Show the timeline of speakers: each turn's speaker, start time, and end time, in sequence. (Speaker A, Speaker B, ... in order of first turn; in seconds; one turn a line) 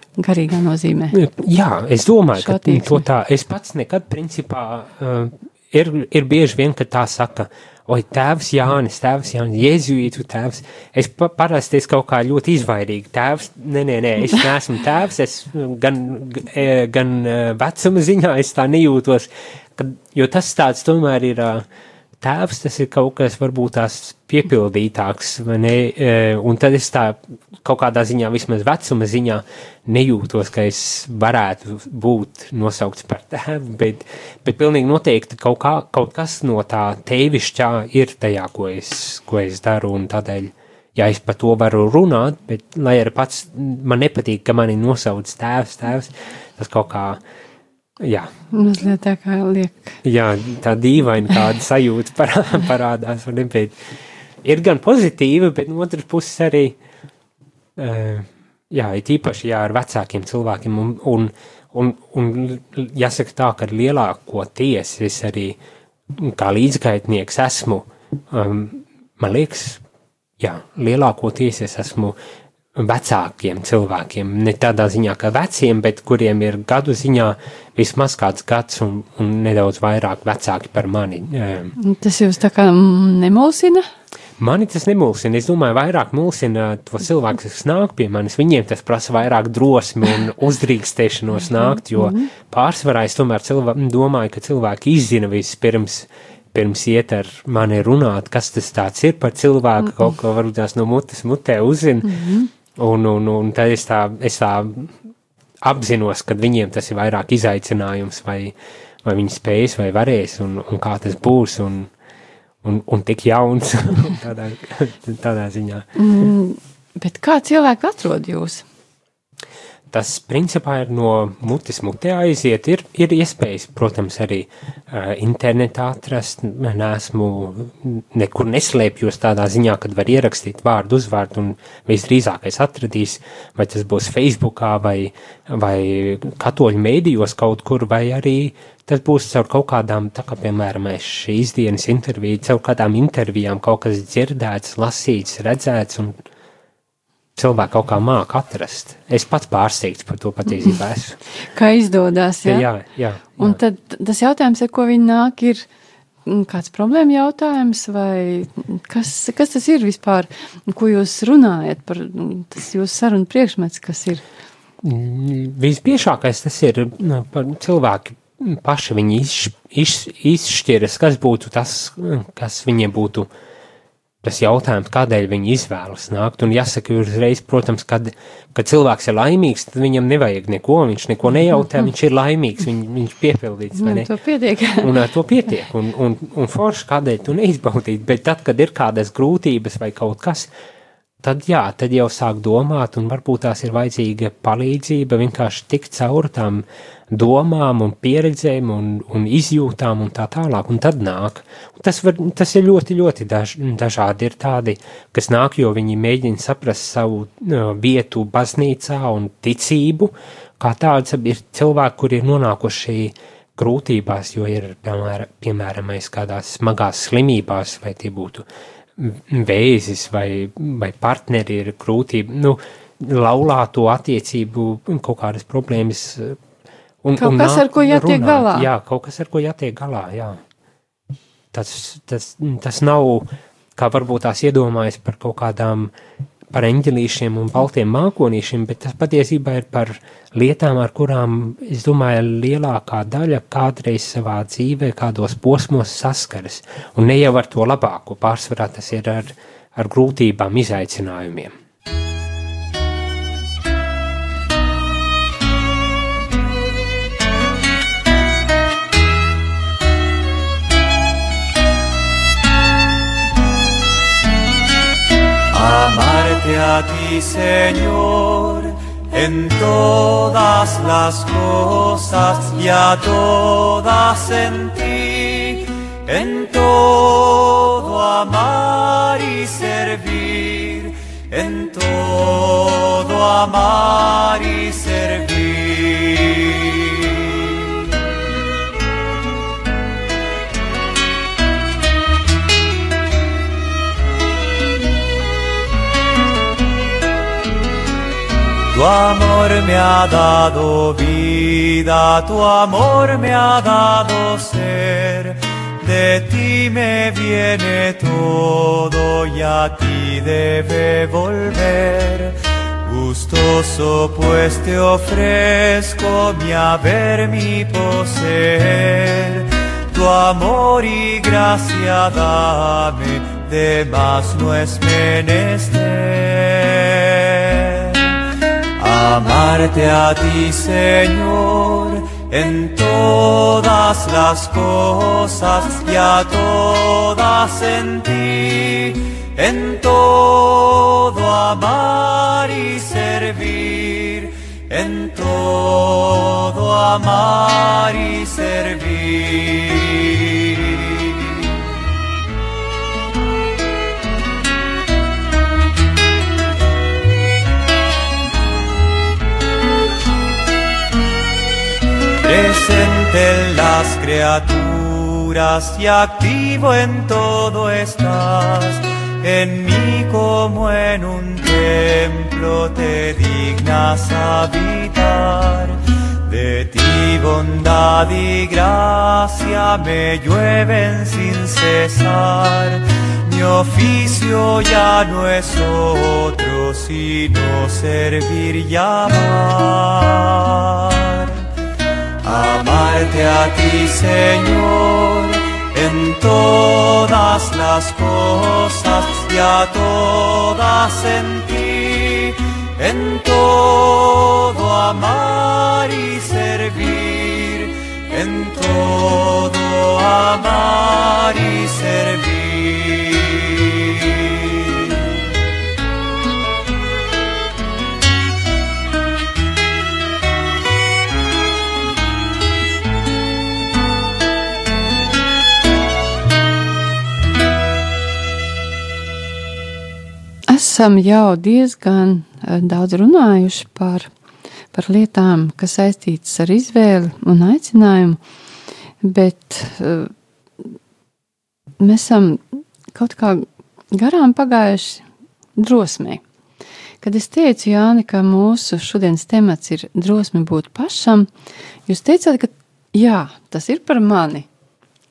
Speaker A: 0.2-1.2
Speaker B: 1.1-21.6
Speaker A: 2.4-3.0
Speaker B: 22.2-47.2
Speaker B: 48.0-48.3
Speaker A: 48.5-50.0
Speaker B: 50.0-53.8
Speaker B: 54.4-56.8
Speaker B: 57.8-65.6
Speaker B: 66.1-69.8
Speaker B: 70.4-72.2
Speaker B: 72.7-81.7
Speaker A: 81.8-83.8
Speaker B: 84.4-104.9
Speaker A: 91.6-92.3
Speaker A: 102.0-102.5
Speaker B: 105.6-111.9
Speaker B: 112.6-116.0
Speaker A: 116.0-118.6
Speaker B: 119.9-146.2
Speaker B: 147.3-151.2
Speaker A: 151.4-152.7
Speaker B: 152.4-153.6
Speaker A: 153.4-155.7
Speaker A: 156.2-164.2
Speaker B: 164.8-173.3
Speaker B: 174.2-184.1
Speaker A: 183.7-185.0
Speaker B: 184.8-190.5
Speaker B: 191.2-226.4
Speaker B: 227.0-230.4
Speaker A: 227.2-228.7
Speaker B: 231.5-235.9
Speaker B: 236.5-251.5
Speaker C: 265.5-287.8
Speaker C: 298.7-328.1
Speaker C: 328.8-351.2
Speaker C: 362.2-391.4
Speaker C: 392.2-415.1
Speaker A: 430.5-434.1
Speaker A: 434.7-438.2
Speaker A: 439.0-440.1
Speaker A: 441.8-445.0
Speaker A: 445.6-446.2
Speaker A: 447.0-451.3
Speaker A: 451.9-454.5